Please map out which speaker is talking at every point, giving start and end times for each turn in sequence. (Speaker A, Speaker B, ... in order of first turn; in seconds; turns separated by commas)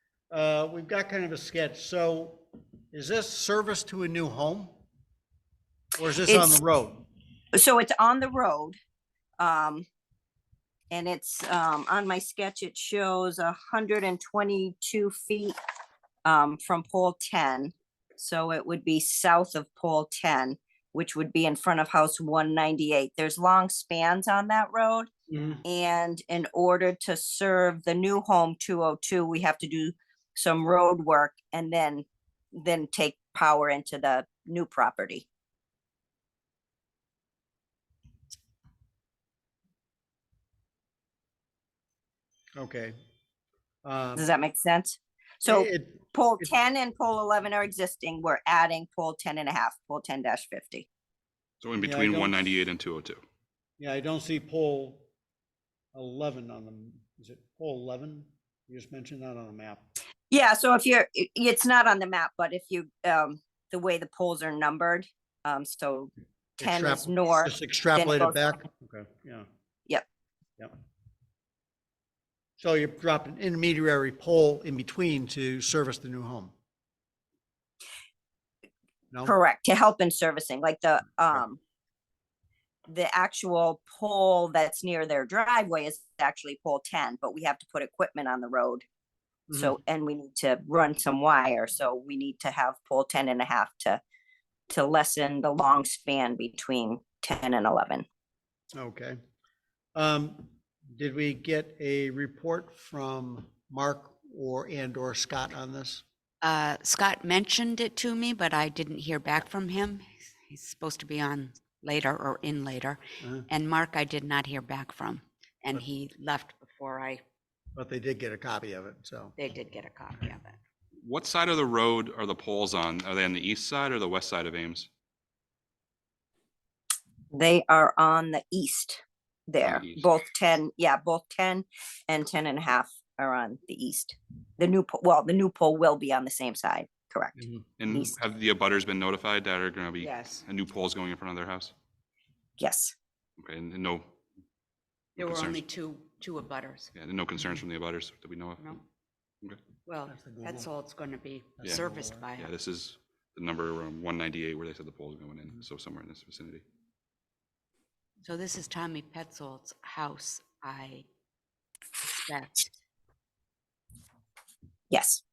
Speaker A: 0.3-4.8, Speaker A: 6.0-7.0, Speaker B: 6.2-6.6, Speaker B: 7.5-8.8, Speaker B: 9.4-9.8, Speaker B: 10.9-15.6, Speaker B: 16.2-25.1, Speaker C: 25.3-25.6, Speaker B: 25.6-35.2, Speaker A: 42.5-42.9, Speaker A: 43.8-44.2, Speaker B: 44.1-50.9, Speaker A: 45.4-46.1, Speaker D: 51.6-53.2, Speaker A: 51.8-52.4, Speaker A: 53.8-55.0, Speaker A: 55.9-59.9, Speaker B: 60.3-68.4, Speaker A: 66.6-69.5, Speaker A: 72.6-76.5, Speaker B: 79.2-81.6, Speaker B: 82.9-88.8, Speaker A: 89.5-89.7, Speaker B: 89.5-94.0, Speaker B: 94.7-98.0, Speaker A: 98.7-99.2, Speaker A: 99.9-106.0, Speaker C: 106.4-117.2, Speaker A: 113.2-113.5, Speaker A: 117.7-119.3, Speaker C: 119.3-120.6, Speaker D: 121.0-124.9, Speaker B: 127.3-138.1, Speaker D: 129.6-130.1, Speaker D: 137.8-141.7, Speaker C: 140.0-140.4, Speaker B: 142.6-142.9, Speaker D: 143.4-144.1, Speaker D: 145.2-145.6, Speaker C: 145.2-146.9, Speaker D: 146.9-148.6, Speaker C: 149.8-152.5, Speaker A: 150.1-150.7, Speaker A: 151.6-152.3, Speaker D: 152.4-156.6, Speaker C: 158.2-161.0, Speaker C: 162.2-162.7, Speaker B: 164.9-165.2